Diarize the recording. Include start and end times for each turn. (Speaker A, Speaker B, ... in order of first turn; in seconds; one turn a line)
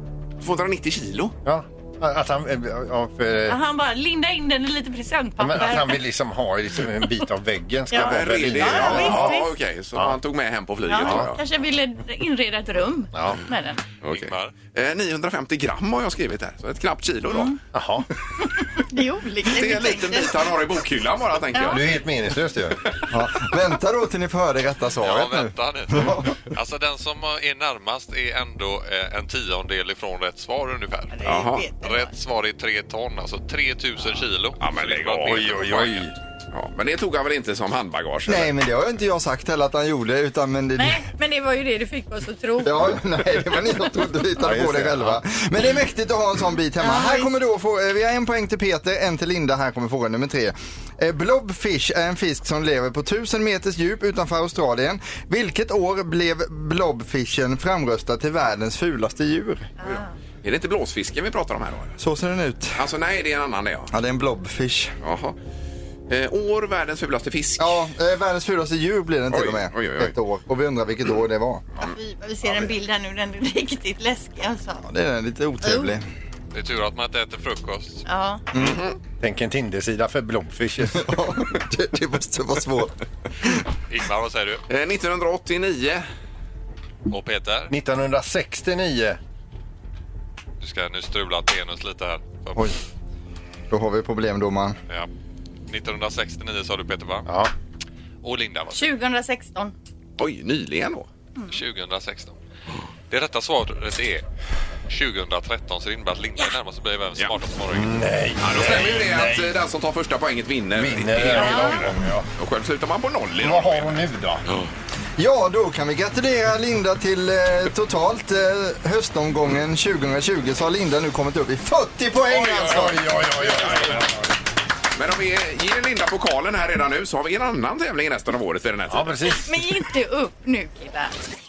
Speaker A: 0.4-1.4
Speaker B: 1.4-3.6
Speaker C: 3.5-6.0
Speaker B: 5.4-9.4
Speaker C: 7.9-9.5
Speaker A: 7.9-11.4
Speaker C: 10.9-13.8
Speaker B: 11.0-11.3
Speaker B: 13.2-13.4
Speaker A: 14.0-17.6
Speaker D: 14.1-14.5
Speaker C: 17.3-17.6
Speaker B: 17.7-18.1
Speaker C: 18.4-20.5
Speaker A: 19.5-22.0
Speaker C: 21.5-21.8
Speaker B: 21.6-22.8
Speaker E: 23.1-26.4
Speaker D: 25.0-31.3
Speaker C: 31.1-32.1
Speaker A: 31.3-31.6
Speaker D: 31.8-36.0
Speaker A: 34.6-38.5
Speaker B: 35.3-36.1
Speaker E: 38.3-41.1
Speaker C: 40.8-42.9
Speaker E: 42.6-59.7
Speaker B: 44.4-45.2
Speaker C: 46.8-47.3
Speaker C: 59.8-60.1
Speaker A: 59.9-62.0
Speaker E: 62.0-62.8
Speaker A: 62.8-63.9
Speaker E: 63.9-64.9
Speaker A: 65.0-65.4
Speaker A: 66.1-67.8
Speaker E: 67.6-71.7
Speaker A: 69.3-70.1
Speaker C: 71.8-74.8
Speaker E: 74.9-76.0
Speaker C: 75.6-75.9
Speaker D: 76.5-78.0
Speaker C: 78.1-78.4
Speaker E: 78.5-78.8
Speaker A: 78.6-79.0
Speaker B: 79.2-81.2
Speaker E: 80.9-83.0
Speaker D: 83.9-84.6
Speaker A: 84.7-86.0
Speaker D: 87.1-87.7
Speaker B: 87.7-89.2
Speaker D: 90.6-92.7
Speaker E: 93.7-94.8
Speaker D: 95.7-97.3
Speaker B: 97.3-97.5
Speaker D: 98.2-98.9
Speaker C: 98.7-99.7
Speaker A: 100.2-101.1
Speaker D: 101.5-102.4
Speaker D: 103.1-104.2
Speaker D: 104.9-108.0
Speaker B: 107.7-109.5
Speaker A: 108.4-114.7
Speaker B: 110.8-112.3
Speaker C: 111.4-111.8
Speaker B: 113.4-114.5
Speaker E: 115.2-123.0
Speaker A: 122.3-124.0
Speaker B: 122.6-124.3
Speaker A: 125.0-129.3
Speaker B: 128.9-129.5
Speaker C: 129.4-131.2